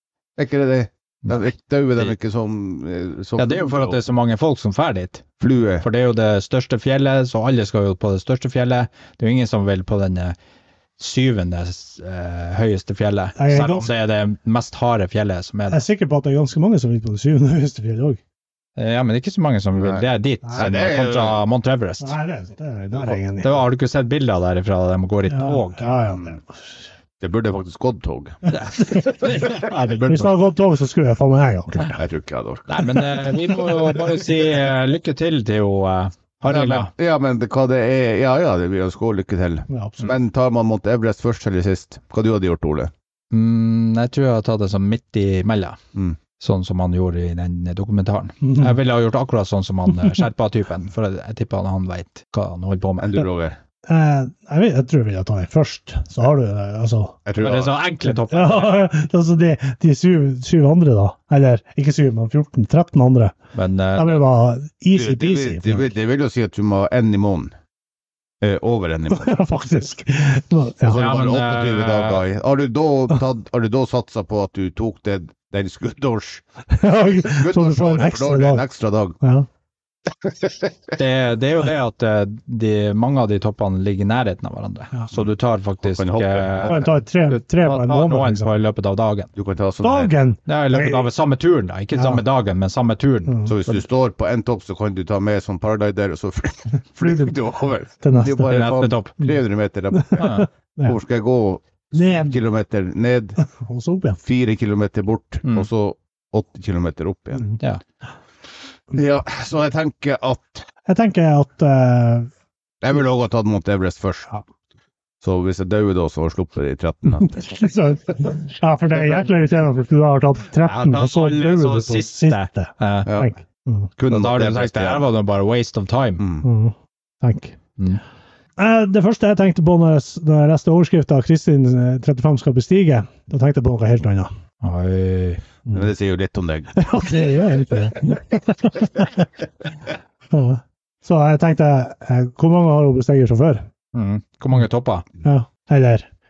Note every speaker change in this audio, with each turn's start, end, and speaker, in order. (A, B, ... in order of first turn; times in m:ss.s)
0:00.4-0:04.0 A
0:03.4-0:05.2 B
0:05.4-0:05.8 A
0:05.8-0:10.3 B
0:11.0-0:15.8 B
0:13.4-0:13.9 C
0:15.7-0:18.2 C
0:18.8-0:22.1 B
0:19.8-0:20.0 A
0:20.4-0:20.7 C
0:20.6-0:21.4 A
0:22.0-0:23.6 C
0:23.4-0:25.9 B
0:25.3-0:26.7 C
0:26.1-0:26.4 A
0:27.2-0:28.5 A
0:28.5-0:29.5 C
0:28.5-0:30.3 B
0:29.3-0:29.7 A
0:30.0-0:32.0 C
0:32.0-0:33.2 A
0:32.7-0:36.9 B
0:36.4-0:42.9 A
0:39.7-0:40.1 C
0:43.3-0:45.8 B
0:46.4-0:53.2 B
0:48.4-0:48.7 C
0:53.0-0:53.6 A
0:53.8-0:57.2 C
0:57.2-0:57.7 A
0:57.4-0:58.9 B
0:58.0-1:03.3 C
1:03.5-1:04.1 B
1:03.9-1:05.9 C
1:04.9-1:07.5 A
1:08.4-1:09.4 A
1:09.1-1:11.0 C
1:10.8-1:16.4 A
1:10.9-1:12.2 B
1:16.7-1:18.6 C
1:17.2-1:19.2 A
1:19.2-1:19.5 C
1:20.2-1:20.7 A
1:21.0-1:29.3 B
1:25.8-1:26.9 A
1:26.6-1:28.5 C
1:29.4-1:30.1 A
1:29.8-1:31.0 C
1:30.5-1:33.7 B
1:31.9-1:32.2 C
1:33.3-1:33.5 C
1:33.5-1:43.4 A
1:37.0-1:37.3 C
1:38.0-1:38.5 C
1:38.4-1:39.2 B
1:39.9-1:41.0 C
1:40.2-1:40.5 B
1:41.9-1:42.4 C
1:43.4-1:44.2 C
1:44.2-1:47.5 A
1:48.9-1:50.6 A
1:50.8-1:52.3 C
1:52.8-1:54.3 A
1:55.2-1:57.7 A
1:57.2-2:03.9 C
2:00.6-2:03.1 B
2:03.0-2:03.3 A
2:04.0-2:05.0 A
2:04.1-2:06.2 B
2:06.2-2:06.5 A
2:06.4-2:07.6 C
2:08.6-2:14.3 C
2:14.6-2:15.4 B
2:15.7-2:16.8 A
2:16.7-2:19.3 C
2:20.3-2:23.6 C
2:23.9-2:25.0 B
2:25.2-2:26.1 C